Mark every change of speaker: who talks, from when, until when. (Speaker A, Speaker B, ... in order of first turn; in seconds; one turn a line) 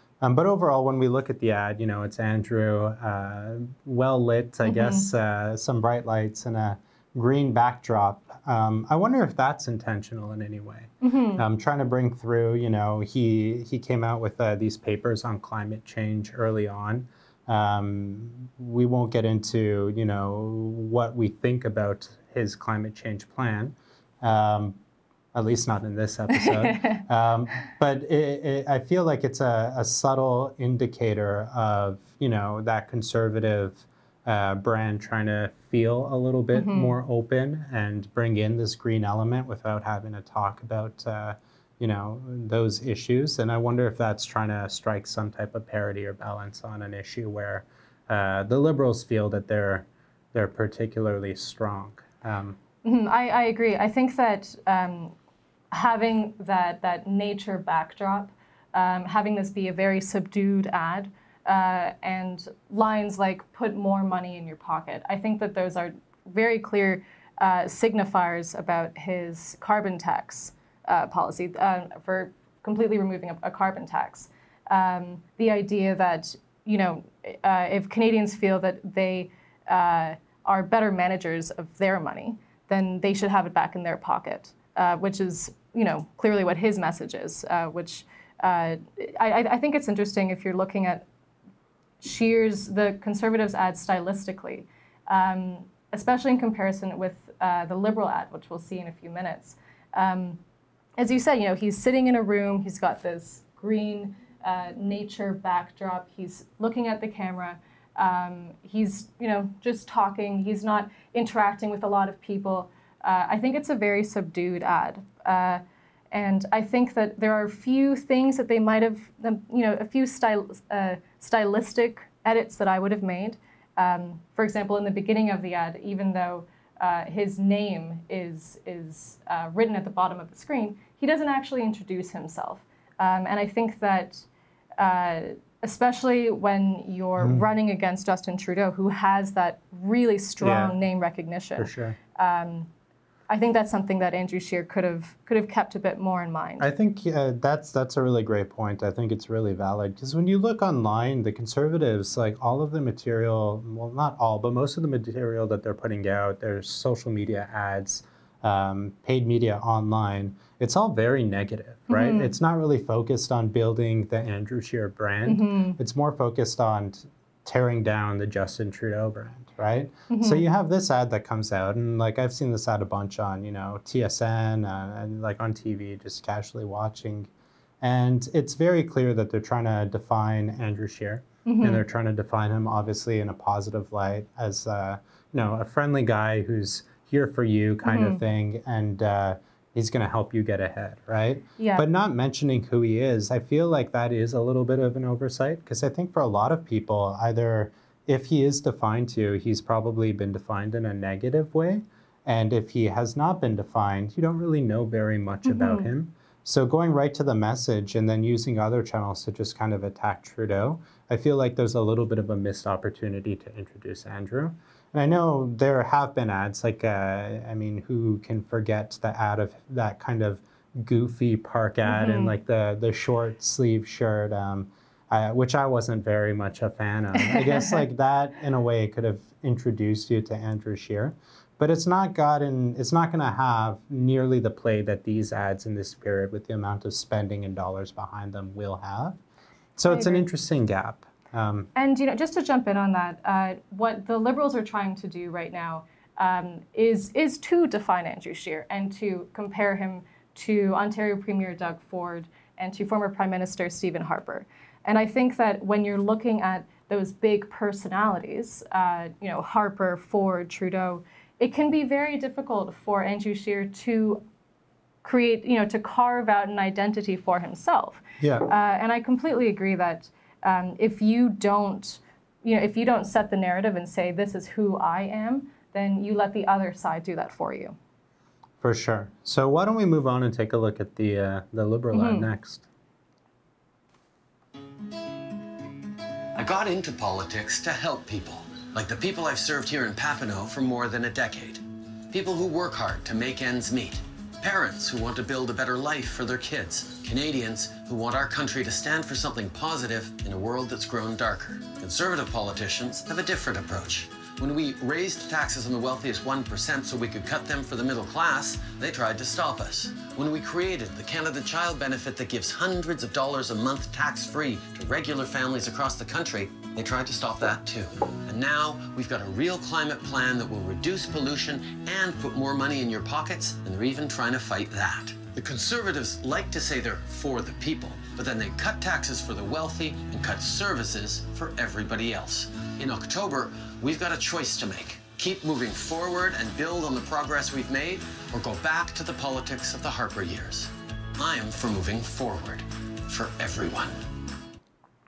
Speaker A: 0.2-24.8
Speaker B: 4.7-5.0
Speaker B: 11.0-11.4
Speaker A: 25.3-52.6
Speaker B: 26.3-27.0
Speaker B: 36.5-37.0
Speaker B: 52.8-55.1
Speaker B: 55.7-91.0
Speaker B: 92.0-100.4
Speaker B: 101.0-134.3
Speaker B: 134.8-142.7
Speaker A: 137.2-137.5
Speaker A: 140.4-140.8
Speaker A: 141.6-142.0
Speaker B: 143.3-146.7
Speaker A: 146.6-177.3
Speaker B: 161.9-162.3
Speaker B: 165.3-165.8
Speaker B: 170.1-170.4
Speaker A: 177.8-239.2
Speaker B: 181.4-181.8
Speaker B: 187.8-188.2
Speaker B: 191.6-191.9
Speaker B: 205.4-205.9
Speaker B: 221.8-222.3
Speaker B: 227.2-227.8
Speaker A: 239.8-241.7
Speaker B: 239.9-240.3
Speaker B: 241.8-264.2
Speaker B: 265.0-277.8
Speaker A: 268.2-268.5
Speaker A: 278.6-282.7
Speaker B: 281.9-282.3
Speaker C: 286.4-344.0